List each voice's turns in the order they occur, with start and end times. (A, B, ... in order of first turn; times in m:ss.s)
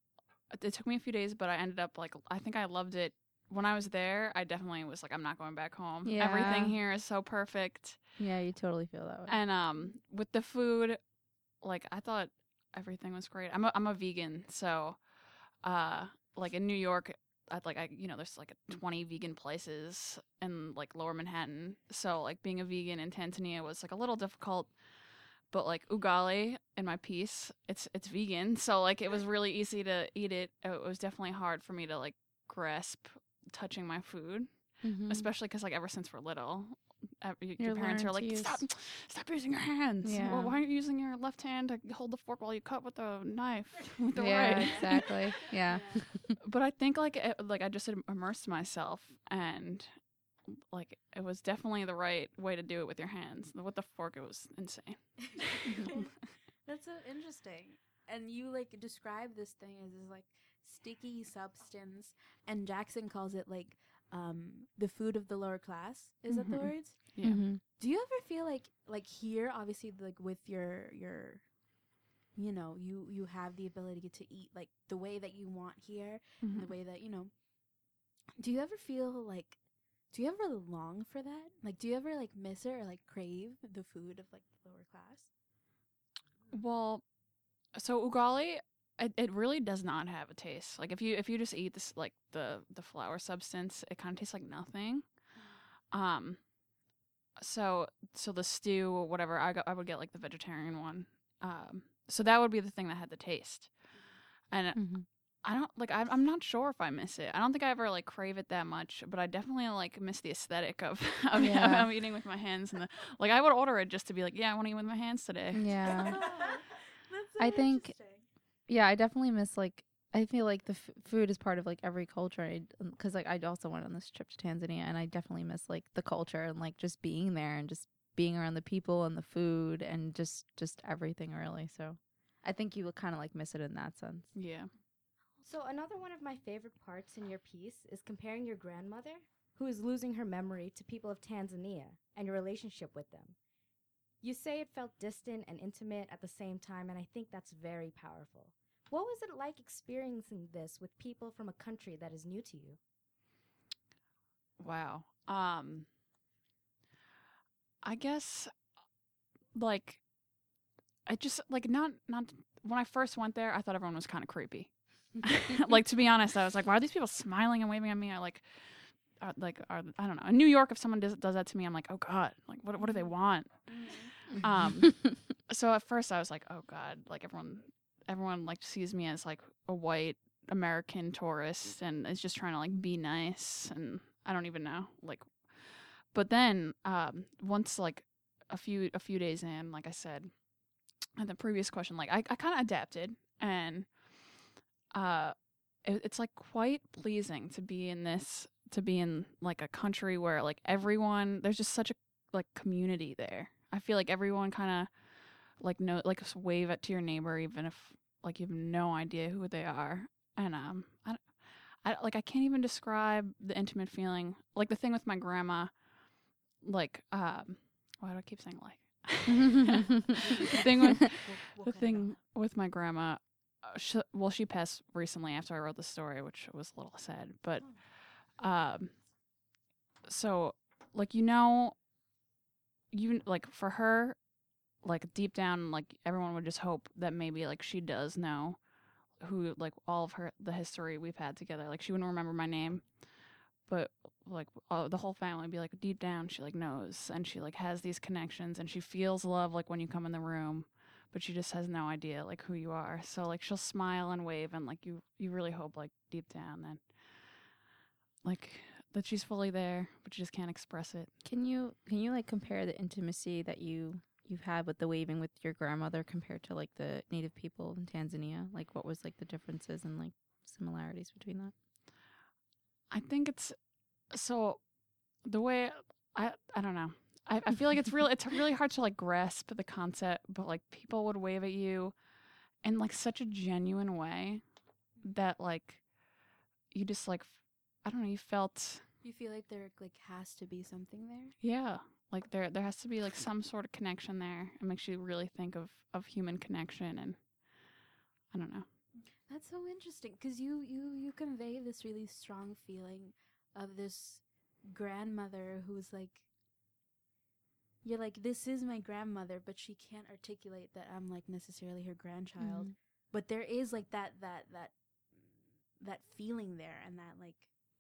0:00.5-0:08.0 A
0:06.0-0:06.8 B
0:08.2-0:09.4 B
0:09.3-0:11.0 A
0:11.6-0:45.2 A
0:34.8-0:35.3 B
0:37.6-0:38.6 B
0:40.0-0:40.6 B
0:44.2-0:46.3 B
0:44.4-0:46.2 C
0:46.4-0:56.1 A
0:55.2-0:56.1 C
0:56.6-1:11.5 C
1:06.3-1:07.6 A
1:07.2-1:07.6 B
1:12.4-1:17.5 C
1:16.4-1:16.7 A
1:18.4-1:25.3 C
1:26.5-1:27.1 A
1:27.6-1:35.3 A
1:35.3-1:35.7 C
1:35.9-1:36.5 A
1:37.4-1:43.9 A
1:43.9-1:44.2 C
1:44.5-1:56.0 A
1:44.8-1:45.0 B
1:51.4-1:51.9 B
1:55.5-1:56.2 B
1:55.8-1:58.3 C
1:57.4-1:58.0 B
1:58.7-2:14.3 B
2:14.3-2:14.7 A
2:15.4-2:23.4 D
2:24.2-2:32.8 D
2:34.6-2:35.9 A
2:37.8-2:38.7 A
2:39.5-2:40.1 A
2:41.1-3:10.5 A
2:52.8-2:54.7 C
3:11.2-3:14.3 A
3:14.9-3:35.9 A
3:36.5-3:49.1 A
3:40.0-3:42.2 C
3:47.6-3:47.8 C
3:50.0-3:51.8 A
3:52.9-4:03.1 A
4:03.6-4:17.4 A
4:18.2-4:21.1 A
4:21.2-4:31.5 B
4:32.9-4:45.9 A
4:46.7-4:48.9 A
4:49.0-4:51.4 C
4:51.4-4:57.3 A
4:58.3-4:58.7 A
4:58.9-5:06.3 C
5:07.8-5:17.5 C
5:12.4-5:12.7 B